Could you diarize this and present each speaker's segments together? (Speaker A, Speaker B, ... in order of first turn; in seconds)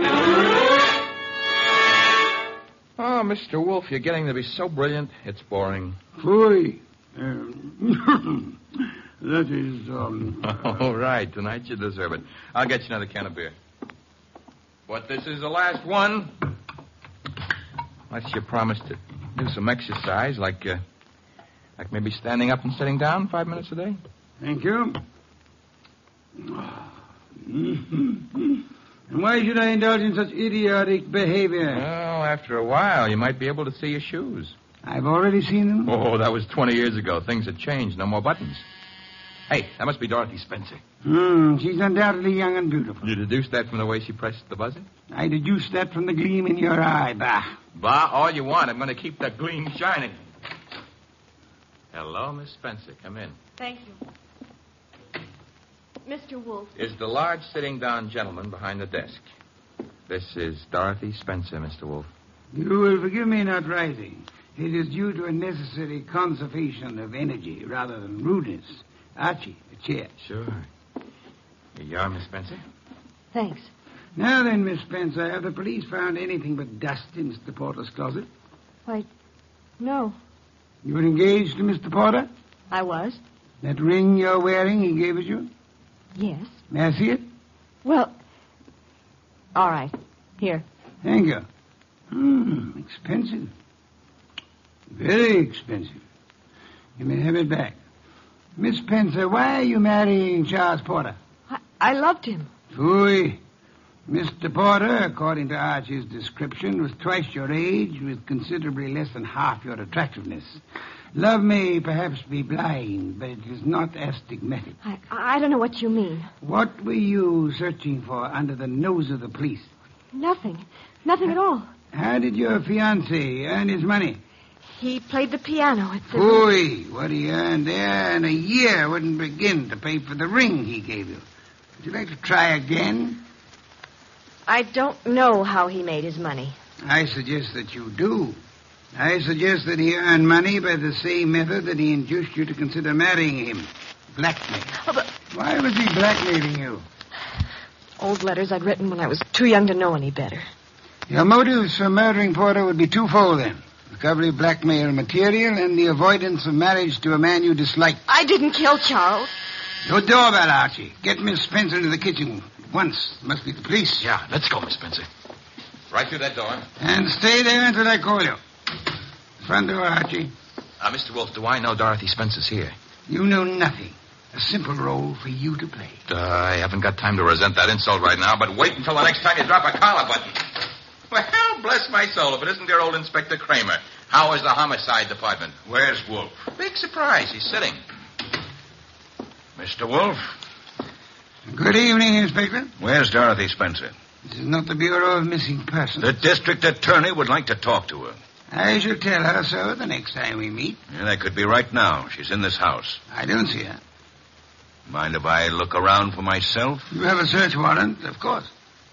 Speaker A: 3.0-6.0, 10.5-13.5, 14.9-16.3, 18.1-20.8, 21.8-24.0, 31.7-34.5, 35.9-38.6, 39.5-40.8, 43.0-44.9, 47.8-50.2, 51.9-53.4, 56.8-59.2, 60.1-62.1, 70.2-70.7, 71.8-72.6, 164.0-165.1, 165.9-166.6, 170.8-172.7, 176.1-180.4, 181.1-185.6, 186.6-187.8
Speaker B: 6.2-8.5, 9.2-10.7, 24.4-25.0, 26.4-26.8, 27.4-28.6, 29.1-31.8, 34.8-35.9, 41.0-43.1, 45.1-47.5, 62.5-70.1, 74.2-78.2, 80.8-82.3, 83.6-85.5, 86.7-87.2, 91.0-91.4, 92.1-93.5, 94.9-96.0, 97.0-97.7, 98.6-101.2, 102.7-103.4, 104.1-110.6, 111.1-114.8, 116.4-119.7, 121.9-124.2, 126.1-131.2, 131.8-133.2, 136.8-138.4, 138.9-144.7, 145.3-146.8, 151.1-158.0, 159.8-164.1, 166.8-168.4, 169.4-170.3, 173.1-176.0, 191.5-192.7, 194.2-196.1, 198.5-200.8, 203.1-203.8, 206.9-208.5
Speaker C: 53.6-54.0, 56.0-56.7, 73.3-73.7, 79.8-80.2, 82.7-83.2, 86.2-86.5, 87.8-88.1, 89.5-90.6, 101.5-102.5, 114.8-116.3, 120.1-121.7, 124.7-126.5, 134.5-136.6, 148.0-150.5, 158.1-159.3
Speaker D: 185.6-186.4, 189.6-190.2, 192.8-193.9, 196.0-198.2, 200.9-203.0, 204.9-206.8